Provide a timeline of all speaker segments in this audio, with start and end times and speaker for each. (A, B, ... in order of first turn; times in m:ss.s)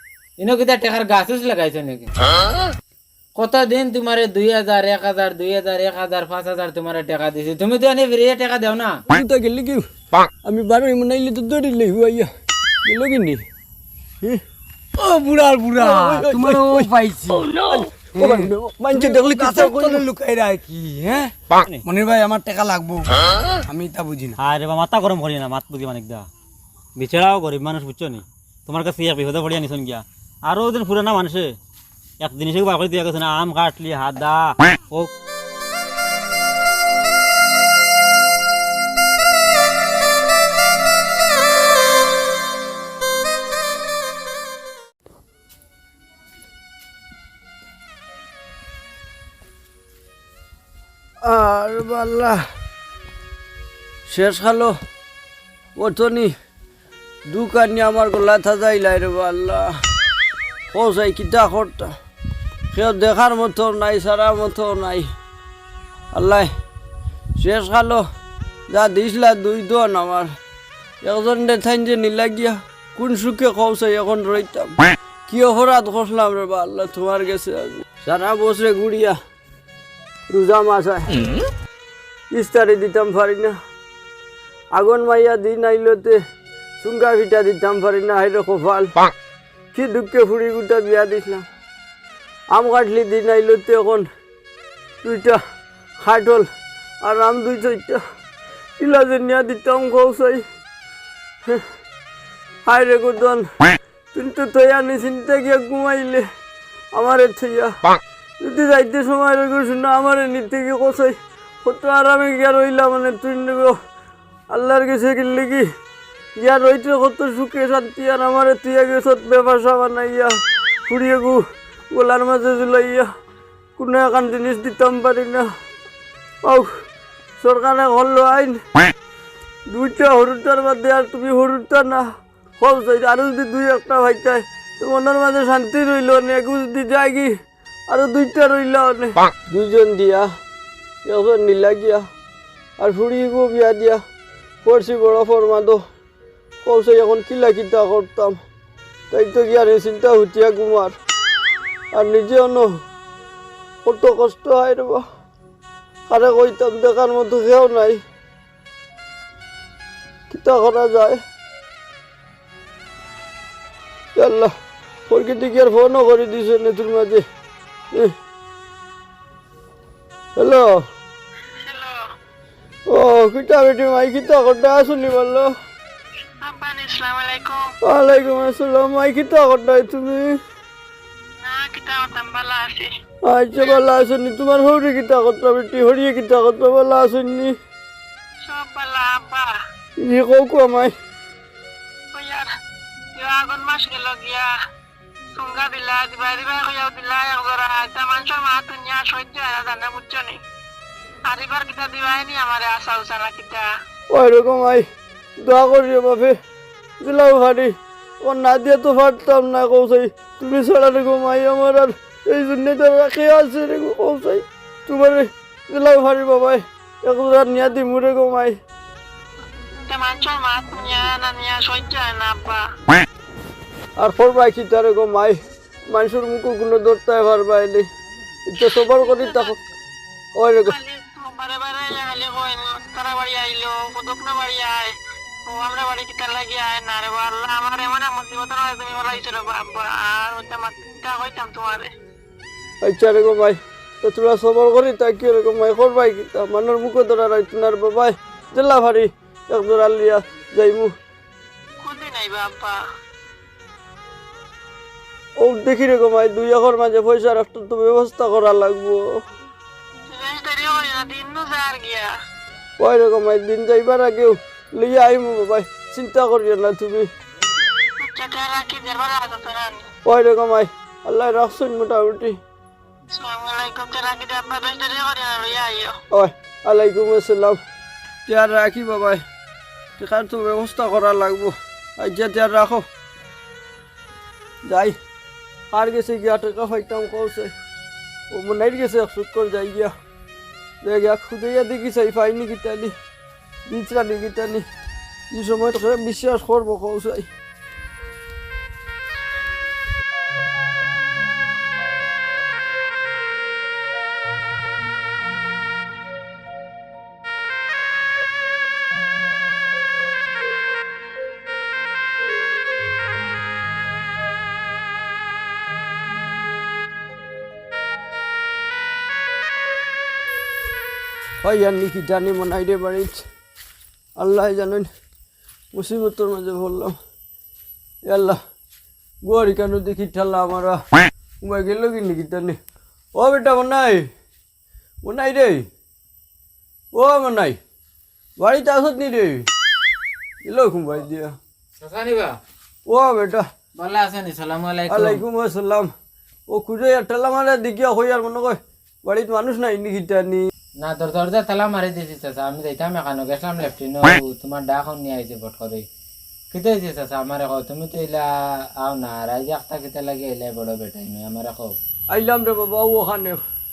0:00.4-0:02.1 A
0:03.4-0:09.0 A
0:09.1-0:09.8 B
0:10.4-0:12.3 B
0:12.8-0:13.4 B
0:15.0-0:17.5 C
0:15.8-0:16.9 B
0:17.6-0:20.0 B
0:18.2-0:21.3 C
0:21.8-0:23.1 C
0:23.6-0:24.4 C
0:24.4-0:26.3 D
0:27.0-0:31.5 D
0:32.2-0:35.1 D
0:51.2-0:52.4 B
0:54.1-0:54.7 B
0:55.8-0:56.3 B
0:57.3-0:59.8 B
1:00.7-1:01.9 B
1:02.7-1:05.1 B
1:06.1-1:06.5 B
1:07.4-1:08.0 B
1:08.7-1:10.3 B
1:11.0-1:14.7 B
1:15.3-1:19.2 B
1:20.3-1:21.1 B
1:22.3-1:23.6 B
1:24.7-1:26.2 B
1:26.8-1:29.0 B
1:29.7-1:31.4 B
1:32.5-1:34.0 B
1:35.0-1:35.4 B
1:36.0-1:36.5 B
1:37.0-1:38.0 B
1:38.8-1:40.4 B
1:42.6-1:43.5 B
1:44.1-1:46.2 B
1:46.9-1:47.8 B
1:48.4-1:53.8 B
1:54.5-1:55.7 B
1:56.4-2:03.1 B
2:03.8-2:05.5 B
2:06.4-2:06.7 B
2:07.4-2:08.6 B
2:09.7-2:12.1 B
2:12.6-2:17.3 B
2:17.9-2:20.3 B
2:21.0-2:22.0 B
2:22.8-2:24.0 B
2:24.6-2:25.8 B
2:26.6-2:28.4 B
2:29.1-2:30.9 B
2:31.9-2:32.7 B
2:33.8-2:35.0 B
2:36.1-2:38.0 B
2:40.3-2:41.2 B
2:44.2-2:44.5 B
2:45.1-2:47.2 B
2:50.4-2:50.8 B
2:51.6-2:52.0 E
2:52.9-2:55.5 B
2:56.4-2:57.7 E
2:57.8-3:00.4 B
3:01.4-3:02.9 E
3:03.2-3:07.5 B
3:08.4-3:09.6 E
3:10.0-3:10.9 B
3:12.1-3:12.5 E
3:13.1-3:14.5 E
3:15.3-3:20.4 E
3:21.2-3:23.7 E
3:24.1-3:24.8 B
3:25.4-3:26.4 B
3:27.0-3:38.6 B
3:39.9-3:42.7 E
3:44.0-3:45.4 B
3:45.9-3:47.9 B
3:48.5-3:49.6 B
3:49.0-3:49.5 E
3:50.4-3:50.7 B
3:50.6-3:54.9 E
3:55.4-4:01.9 E
4:02.8-4:10.9 B
4:11.8-4:12.8 E
4:15.4-4:19.2 B
4:20.1-4:22.1 E
4:22.8-4:27.1 B
4:28.0-4:29.9 E
4:30.0-4:32.4 B
4:33.1-4:36.0 E
4:36.1-4:37.6 B
4:38.3-4:39.2 B
4:40.0-4:42.8 B
4:44.6-4:45.0 B
4:45.7-4:47.5 B
4:48.3-4:49.9 B
4:50.8-4:52.9 B
4:53.7-4:54.6 B
4:55.3-4:57.3 B
5:21.4-5:23.2 B
5:24.2-5:24.9 B
5:25.7-5:27.0 B
5:28.1-5:28.4 B
5:29.2-5:30.8 B
5:31.4-5:32.6 B
5:33.1-5:34.1 B
5:35.0-5:35.6 B
5:36.9-5:37.6 B
5:38.4-5:39.4 B
5:40.4-5:41.3 B
5:41.8-5:42.4 A
5:42.9-5:43.4 B
5:43.7-5:45.2 A
5:44.9-5:45.9 B
5:46.5-5:50.4 B
5:50.8-5:55.8 A
5:56.5-6:01.8 A
6:02.1-6:03.4 B